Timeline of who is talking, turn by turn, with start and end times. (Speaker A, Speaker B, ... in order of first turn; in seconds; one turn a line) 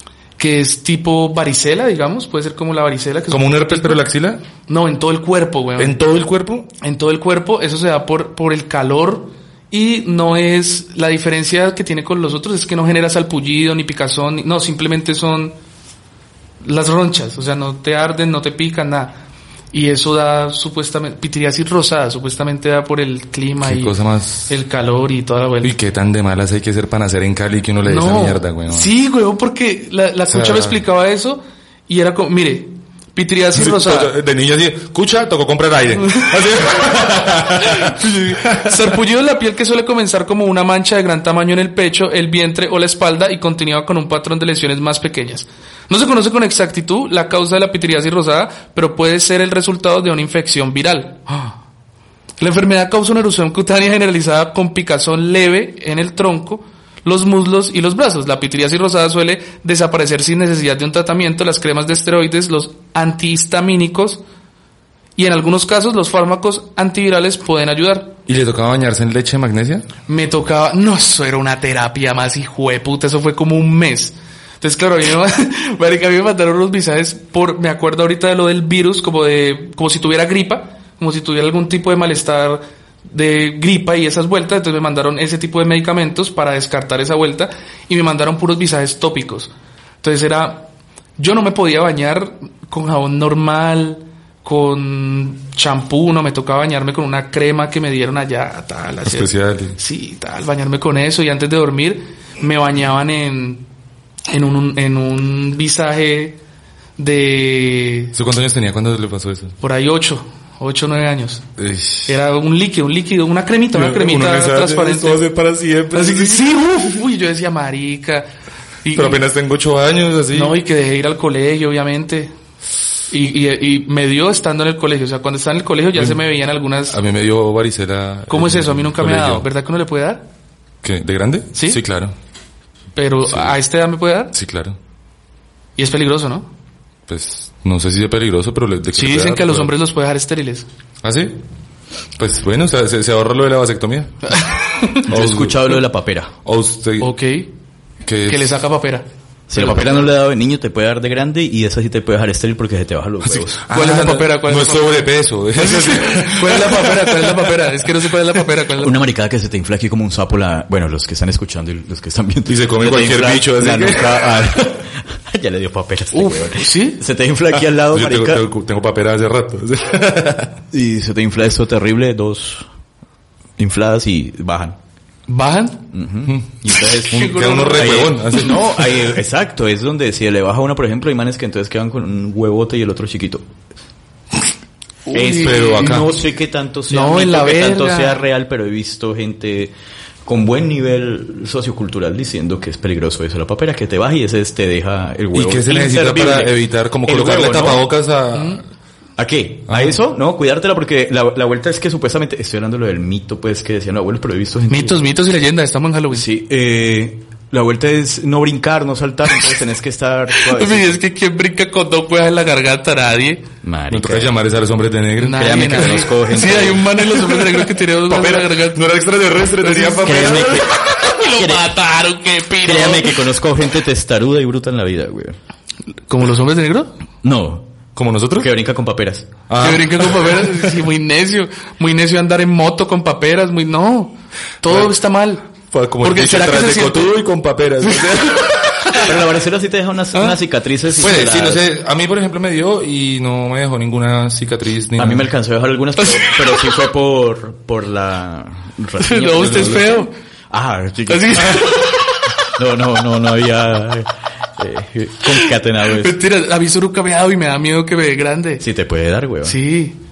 Speaker A: 0.4-4.0
Speaker B: 3.3-4.4
Speaker A: 4.7-6.0
Speaker B: 5.8-6.7
Speaker A: 6.8-15.6
Speaker A: 16.6-19.2
Speaker A: 19.7-23.9
Speaker B: 23.6-24.5
Speaker A: 24.5-25.7
Speaker B: 25.6-28.9
Speaker A: 27.8-34.1
Speaker B: 30.3-30.8
Speaker B: 33.5-39.0
Speaker A: 36.0-36.5
Speaker A: 37.6-51.6
Speaker A: 52.4-64.2
Speaker A: 65.2-68.1
Speaker B: 68.3-69.8
Speaker A: 70.1-103.7
Speaker B: 99.1-99.8
Speaker A: 104.3-106.4
Speaker A: 107.0-108.1
Speaker B: 108.1-109.6
Speaker A: 109.6-111.4
Speaker B: 111.6-112.2
Speaker A: 112.1-115.2
Speaker B: 113.7-116.8
Speaker A: 115.9-118.3
Speaker A: 118.8-119.2
Speaker B: 119.0-120.6
Speaker A: 120.3-122.3
Speaker A: 123.1-127.0
Speaker B: 126.0-126.2
Speaker B: 126.9-129.5
Speaker A: 128.3-130.3
Speaker B: 130.8-132.1
Speaker A: 131.6-131.8
Speaker A: 133.0-134.3
Speaker B: 133.3-133.6
Speaker B: 134.3-134.8
Speaker A: 135.8-136.5
Speaker B: 137.1-139.7
Speaker A: 139.0-140.7
Speaker B: 141.0-141.3
Speaker B: 142.2-144.4
Speaker A: 144.3-145.0
Speaker B: 145.1-145.8
Speaker C: 145.1-146.3
Speaker B: 146.4-147.1
Speaker A: 147.0-147.5
Speaker B: 148.0-148.6
Speaker A: 148.3-150.1
Speaker C: 149.5-153.6
Speaker B: 153.2-157.5
Speaker A: 153.7-158.9
Speaker C: 158.8-168.4
Speaker B: 162.5-164.8
Speaker A: 166.1-167.0
Speaker B: 167.9-170.5
Speaker C: 170.7-172.7
Speaker C: 173.6-174.8
Speaker A: 175.3-175.9
Speaker C: 175.9-183.5
Speaker B: 176.3-179.1
Speaker A: 177.1-178.4
Speaker A: 185.1-186.1
Speaker C: 185.1-189.7
Speaker B: 185.4-186.1
Speaker A: 186.9-188.2
Speaker C: 190.2-196.5
Speaker B: 195.3-198.6
Speaker C: 197.1-197.9
Speaker A: 198.3-198.6
Speaker C: 199.2-205.0
Speaker B: 199.7-200.0
Speaker A: 204.7-206.3
Speaker C: 206.1-211.0
Speaker A: 210.3-213.4
Speaker C: 213.6-214.3
Speaker B: 213.9-216.1
Speaker A: 215.2-218.8
Speaker C: 215.3-217.1
Speaker B: 218.1-220.7
Speaker A: 219.6-223.2
Speaker C: 220.0-221.7
Speaker C: 222.6-225.4
Speaker A: 226.1-226.9
Speaker C: 227.2-227.7
Speaker B: 228.0-228.5
Speaker C: 228.4-229.3
Speaker B: 229.5-230.7
Speaker A: 229.6-235.5
Speaker B: 234.7-234.9
Speaker B: 235.7-239.1
Speaker A: 236.0-237.2
Speaker A: 237.8-239.1
Speaker C: 239.0-241.7
Speaker A: 240.1-240.4
Speaker B: 241.0-245.3
Speaker C: 245.0-251.7
Speaker A: 246.0-246.7
Speaker A: 249.0-250.1
Speaker B: 249.4-249.9
Speaker A: 251.1-252.3
Speaker C: 252.6-256.2
Speaker A: 255.9-258.6
Speaker C: 258.6-259.6
Speaker A: 259.4-260.0